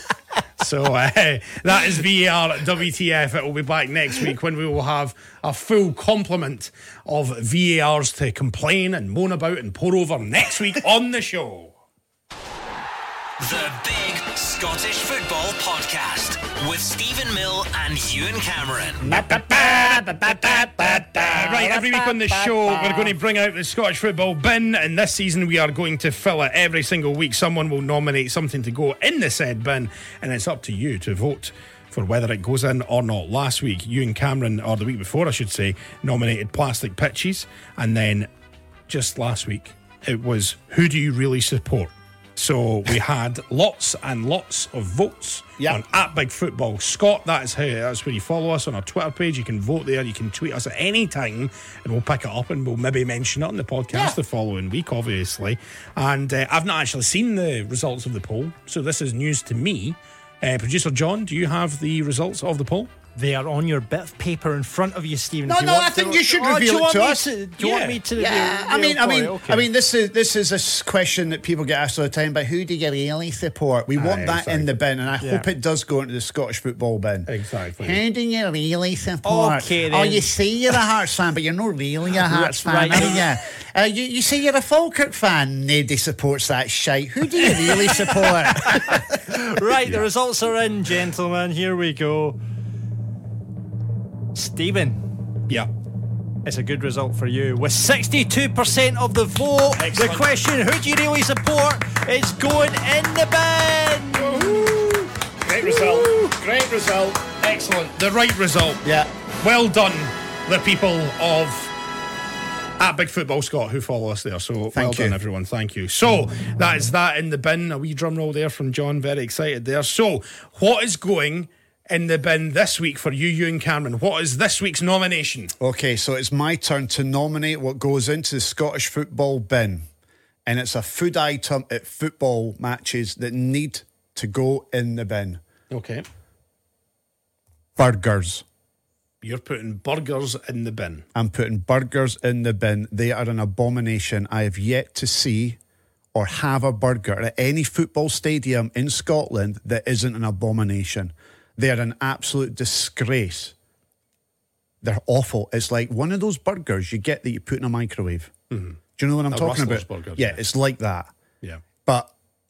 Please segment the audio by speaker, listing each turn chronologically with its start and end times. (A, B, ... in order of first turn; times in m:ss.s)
0:00.6-0:11.8 A
0:13.4-0:19.2 B
0:19.0-0:23.1 C
0:19.1-0:38.3 A
0:38.9-1:02.9 A
0:53.9-0:54.2 C
1:03.2-1:09.7 D
1:05.5-1:07.3 C
1:07.6-1:08.0 A
1:08.1-1:29.2 C
1:14.0-1:14.8 A
1:15.2-1:15.5 D
1:17.3-1:18.0 A
1:19.2-1:20.3 D
1:22.2-1:23.2 D
1:27.4-1:32.4 D
1:34.3-1:35.0 D
1:36.4-1:44.7 D
1:39.8-1:40.3 A
1:44.2-1:44.7 A
1:45.4-1:47.2 C
1:45.7-1:46.0 A
1:47.4-1:48.9 A
1:48.8-1:49.1 C
1:49.4-1:51.7 A
1:52.8-2:05.5 A
1:54.7-1:55.2 C
2:05.6-2:09.9 C
2:10.5-2:15.4 C
2:15.7-2:16.0 A
2:17.8-2:18.4 C
2:19.2-2:21.1 A
2:21.2-2:25.6 C
2:26.1-2:33.6 C
2:34.8-2:38.3 C
2:38.5-2:40.4 A
2:39.0-2:41.1 C
2:41.8-2:42.1 C